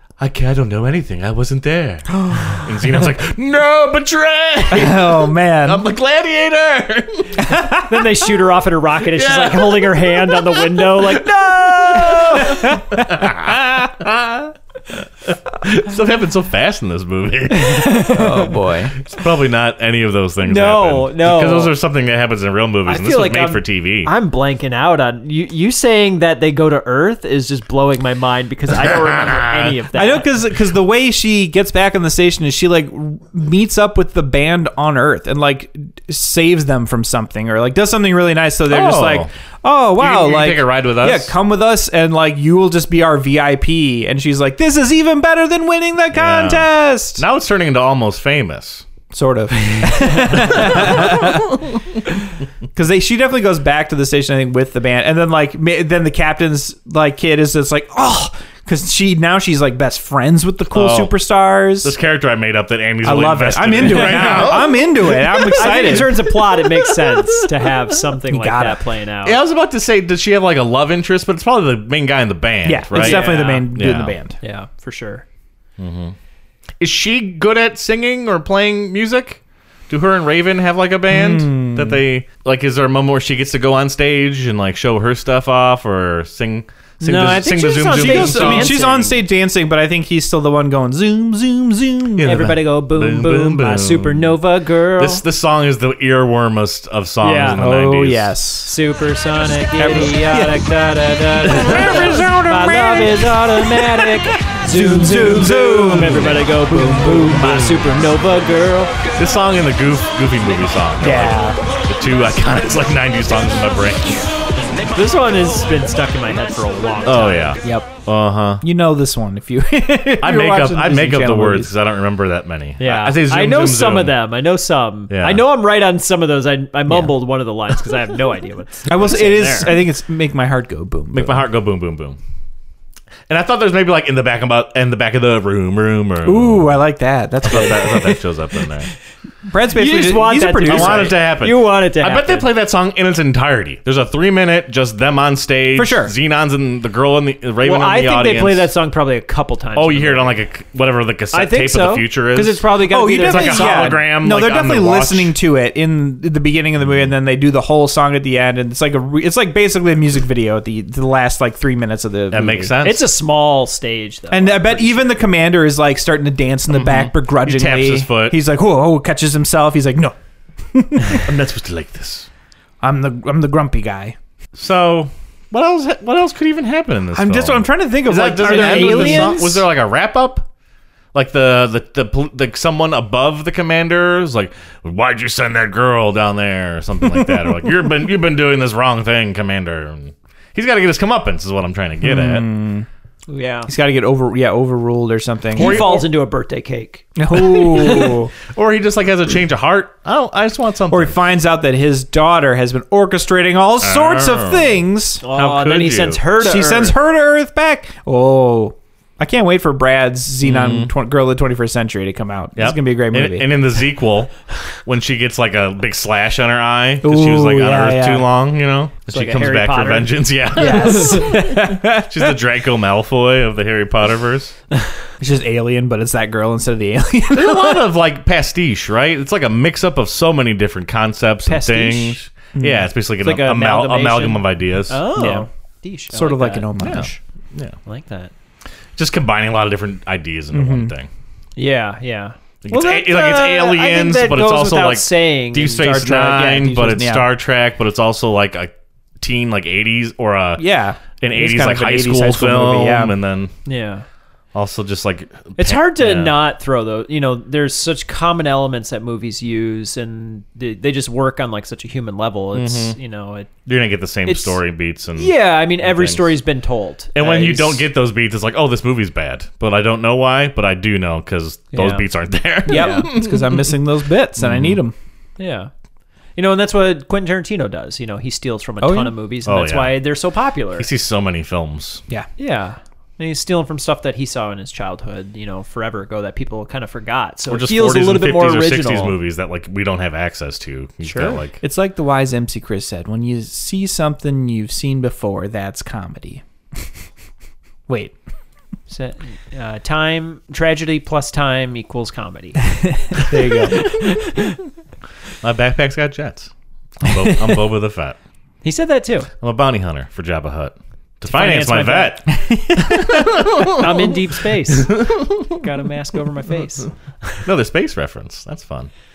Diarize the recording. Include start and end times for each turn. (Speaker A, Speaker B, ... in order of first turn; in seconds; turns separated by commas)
Speaker A: 0.2-7.4, Speaker B: 2.1-3.0, Speaker B: 4.7-5.9, Speaker B: 7.4-8.1, Speaker C: 7.9-12.7, Speaker A: 9.1-18.1, Speaker B: 12.4-13.9, Speaker C: 17.6-18.5, Speaker B: 18.1-18.9, Speaker A: 19.0-24.1, Speaker C: 20.4-21.7, Speaker C: 22.9-30.3, Speaker B: 29.9-47.2, Speaker A: 38.7-39.3, Speaker A: 40.0-41.3, Speaker A: 46.1-48.9, Speaker B: 49.1-51.7, Speaker A: 50.3-51.7, Speaker B: 52.8-62.0, Speaker A: 60.7-61.2, Speaker A: 61.8-66.0, Speaker B: 63.0-66.4, Speaker C: 64.0-64.6, Speaker C: 65.3-69.4, Speaker B: 68.3-68.8, Speaker A: 69.2-74.1, Speaker B: 72.7-74.4, Speaker C: 72.9-73.7, Speaker C: 74.4-75.2, Speaker A: 75.8-76.2, Speaker A: 76.8-88.8, Speaker B: 81.1-82.0, Speaker C: 87.0-89.2, Speaker B: 87.9-92.5, Speaker A: 92.2-94.4, Speaker C: 92.2-95.2, Speaker A: 95.0-98.4, Speaker C: 97.2-97.6, Speaker B: 97.5-98.8, Speaker C: 98.7-108.9, Speaker B: 99.8-100.7, Speaker B: 101.4-107.8, Speaker A: 101.5-102.2, Speaker A: 109.2-114.3, Speaker B: 111.0-111.6, Speaker C: 114.9-117.6, Speaker A: 117.0-118.6, Speaker B: 117.6-117.9, Speaker B: 118.6-121.7, Speaker A: 120.2-124.1, Speaker C: 122.8-129.8, Speaker A: 125.1-125.4, Speaker B: 128.9-131.5, Speaker A: 131.1-132.2, Speaker A: 133.3-136.8, Speaker B: 136.2-138.2, Speaker A: 137.4-138.9, Speaker B: 139.5-141.2, Speaker C: 139.7-142.5, Speaker A: 140.7-148.7, Speaker B: 145.8-146.1, Speaker C: 147.6-150.4, Speaker A: 149.8-155.3, Speaker C: 151.3-154.0, Speaker B: 152.8-162.7, Speaker A: 162.3-163.1, Speaker C: 162.8-165.2, Speaker B: 164.3-170.2, Speaker A: 166.7-168.4, Speaker B: 170.7-171.3, Speaker A: 171.1-172.3, Speaker B: 172.8-174.2, Speaker A: 174.6-180.5, Speaker B: 177.1-179.6, Speaker C: 178.4-179.5, Speaker A: 181.1-192.5, Speaker B: 187.2-187.5, Speaker B: 192.0-192.9, Speaker C: 193.3-193.7, Speaker B: 193.7-196.0, Speaker C: 195.6-198.2, Speaker A: 195.6-196.1, Speaker B: 197.2-198.3, Speaker A: 198.5-201.2, Speaker B: 200.9-205.2, Speaker A: 203.8-206.2, Speaker C: 205.2-207.0, Speaker B: 206.4-213.5, Speaker A: 210.4-210.9, Speaker A: 212.6-214.3, Speaker A: 214.8-224.6, Speaker B: 217.0-218.3, Speaker C: 219.1-221.3, Speaker B: 220.6-222.4, Speaker B: 225.2-227.9, Speaker A: 227.3-235.0, Speaker C: 231.5-232.2, Speaker B: 232.6-232.9, Speaker C: 233.2-237.0, Speaker B: 235.2-235.5, Speaker B: 236.1-237.2, Speaker A: 236.8-237.8, Speaker C: 237.9-238.3, Speaker A: 239.0-241.1, Speaker B: 240.5-240.9, Speaker C: 241.6-245.9, Speaker A: 242.6-250.6, Speaker B: 245.8-247.3, Speaker B: 250.6-253.2, Speaker A: 251.2-253.5, Speaker C: 253.7-254.1, Speaker A: 254.5-256.4, Speaker C: 255.6-263.5, Speaker A: 262.6-263.0, Speaker A: 263.7-266.3, Speaker C: 264.2-264.6, Speaker C: 265.2-267.9, Speaker A: 267.1-273.7, Speaker C: 271.7-272.1, Speaker C: 272.7-273.1, Speaker B: 272.7-274.9, Speaker A: 274.4-274.8, Speaker C: 275.4-275.7, Speaker C: 276.4-280.9, Speaker B: 278.8-279.1, Speaker A: 279.5-280.0, Speaker A: 280.8-282.0, Speaker C: 282.4-289.2, Speaker A: 287.5-291.6, Speaker C: 291.0-291.4, Speaker B: 291.6-296.4, Speaker B: 297.9-298.1, Speaker C: 298.9-304.6, Speaker B: 302.9-303.9, Speaker A: 305.4-308.2, Speaker B: 307.2-307.6, Speaker C: 308.6-309.3, Speaker A: 309.4-312.2, Speaker C: 311.3-312.2, Speaker B: 312.3-313.3, Speaker A: 312.8-315.6, Speaker C: 313.7-315.1, Speaker C: 315.6-317.4, Speaker A: 317.4-318.9